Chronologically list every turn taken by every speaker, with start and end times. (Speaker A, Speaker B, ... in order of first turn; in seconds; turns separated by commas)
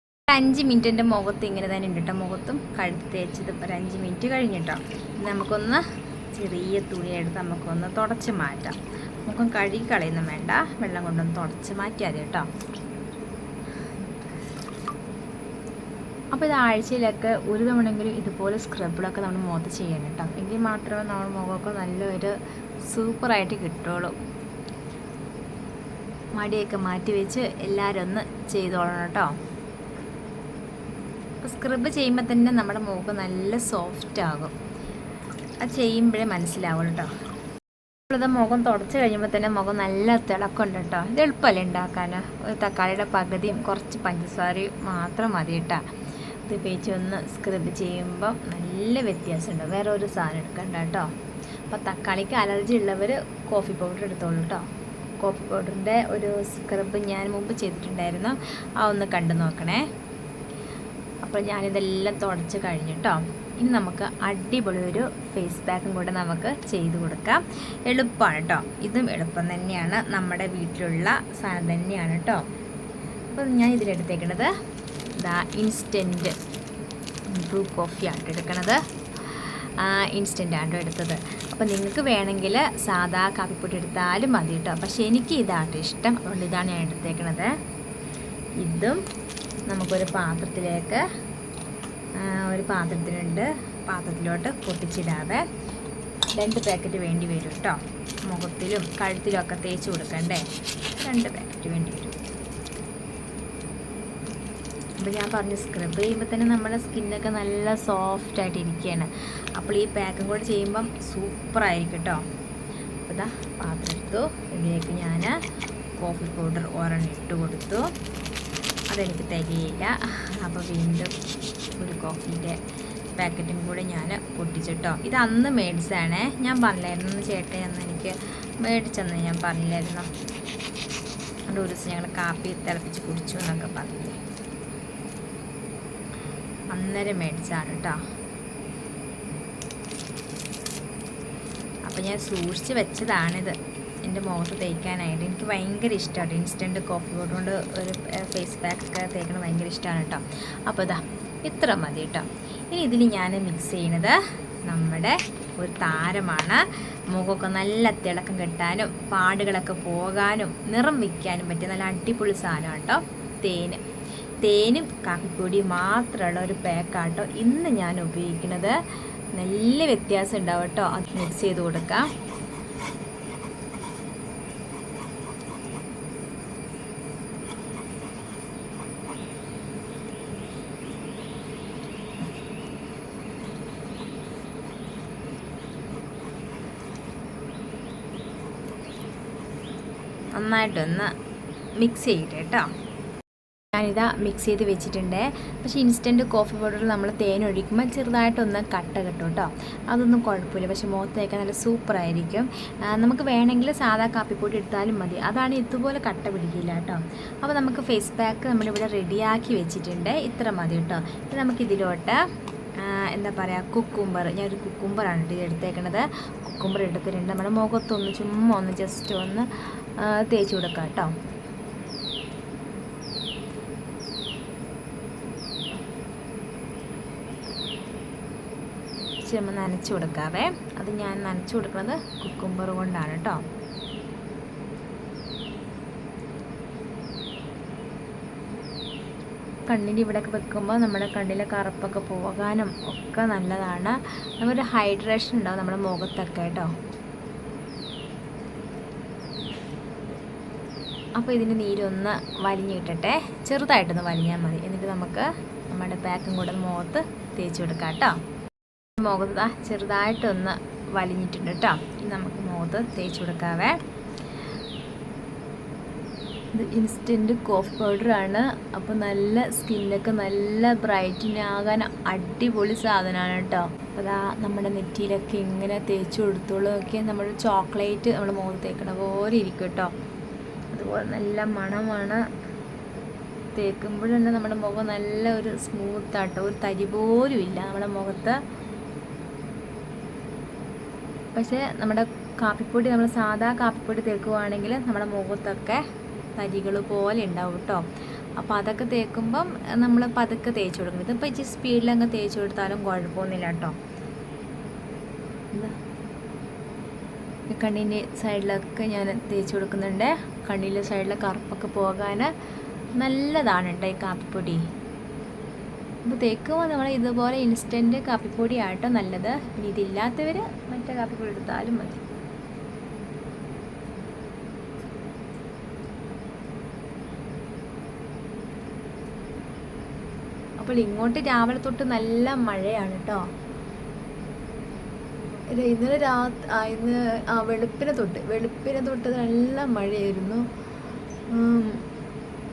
Speaker A: 0.3-12.5, Speaker A: 16.3-24.1, Speaker A: 26.3-29.3, Speaker A: 31.4-34.5, Speaker A: 35.6-37.1, Speaker A: 38.1-45.8, Speaker A: 46.5-51.1, Speaker A: 51.7-54.7, Speaker A: 55.2-59.9, Speaker A: 61.2-72.4, Speaker A: 73.3-74.5, Speaker A: 75.1-76.3, Speaker A: 77.3-87.5, Speaker A: 88.6-89.0, Speaker A: 89.7-91.0, Speaker A: 92.2-95.4, Speaker A: 96.3-102.2, Speaker A: 105.0-112.2, Speaker A: 113.0-115.4, Speaker A: 116.0-117.9, Speaker A: 118.9-121.1, Speaker A: 121.8-122.6, Speaker A: 123.2-130.1, Speaker A: 131.5-134.2, Speaker A: 136.7-138.0, Speaker A: 141.8-163.8, Speaker A: 164.4-168.8, Speaker A: 169.3-172.1, Speaker A: 190.3-191.1, Speaker A: 191.8-192.7, Speaker A: 193.7-212.2, Speaker A: 212.8-221.1, Speaker A: 229.2-233.4, Speaker A: 239.7-246.7, Speaker A: 251.2-258.2, Speaker A: 259.0-263.8, Speaker A: 266.5-279.9, Speaker A: 280.7-282.2, Speaker A: 283.5-288.4, Speaker A: 291.3-295.8, Speaker A: 296.4-297.9, Speaker A: 298.4-303.8, Speaker A: 307.5-312.3, Speaker A: 313.0-314.6, Speaker A: 316.0-322.0, Speaker A: 330.6-333.2, Speaker A: 335.5-340.4, Speaker A: 341.3-341.8